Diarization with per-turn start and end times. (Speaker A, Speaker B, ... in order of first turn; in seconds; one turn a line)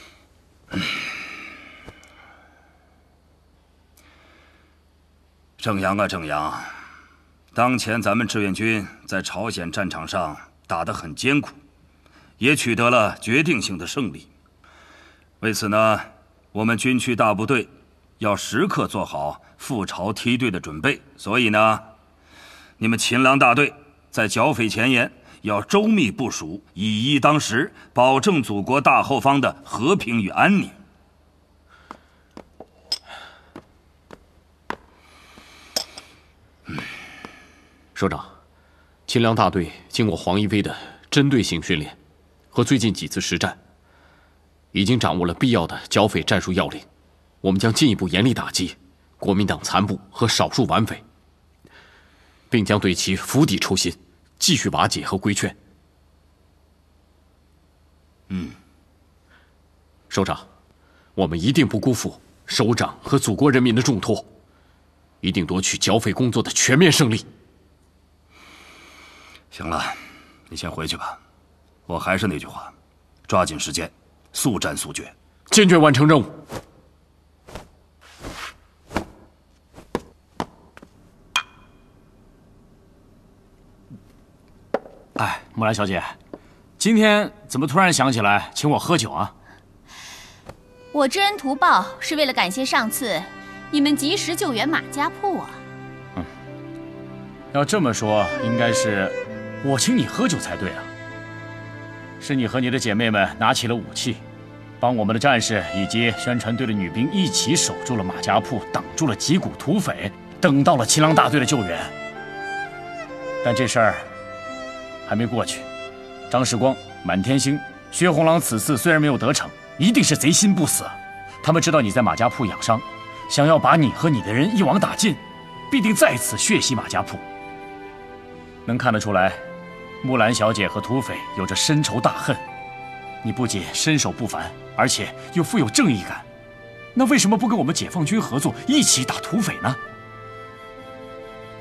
Speaker A: 5.6-6.7
Speaker A: 7.5-11.6
Speaker A: 12.4-14.3
Speaker A: 15.4-21.9
Speaker A: 22.8-30.8
Speaker B: 38.0-38.3
Speaker B: 39.1-42.0
Speaker B: 42.5-43.6
Speaker B: 44.7-46.9
Speaker B: 47.4-51.0
Speaker B: 52.5-55.6
Speaker B: 60.1-60.5
Speaker B: 61.2-64.3
Speaker B: 65.2-67.3
Speaker A: 69.5-70.0
Speaker A: 70.5-71.2
Speaker A: 71.9-72.7
Speaker A: 73.3-75.1
Speaker B: 75.5-76.3
Speaker C: 85.2-86.2
Speaker C: 86.8-89.3
Speaker D: 90.9-95.6
Speaker C: 97.5-100.9
Speaker C: 102.2-104.2
Speaker C: 104.8-111.9
Speaker C: 113.4-114.1
Speaker C: 115.1-115.7
Speaker C: 116.3-127.2
Speaker C: 128.7-129.4
Speaker C: 130.0-132.4
Speaker C: 133.2-136.3
Speaker C: 136.9-139.8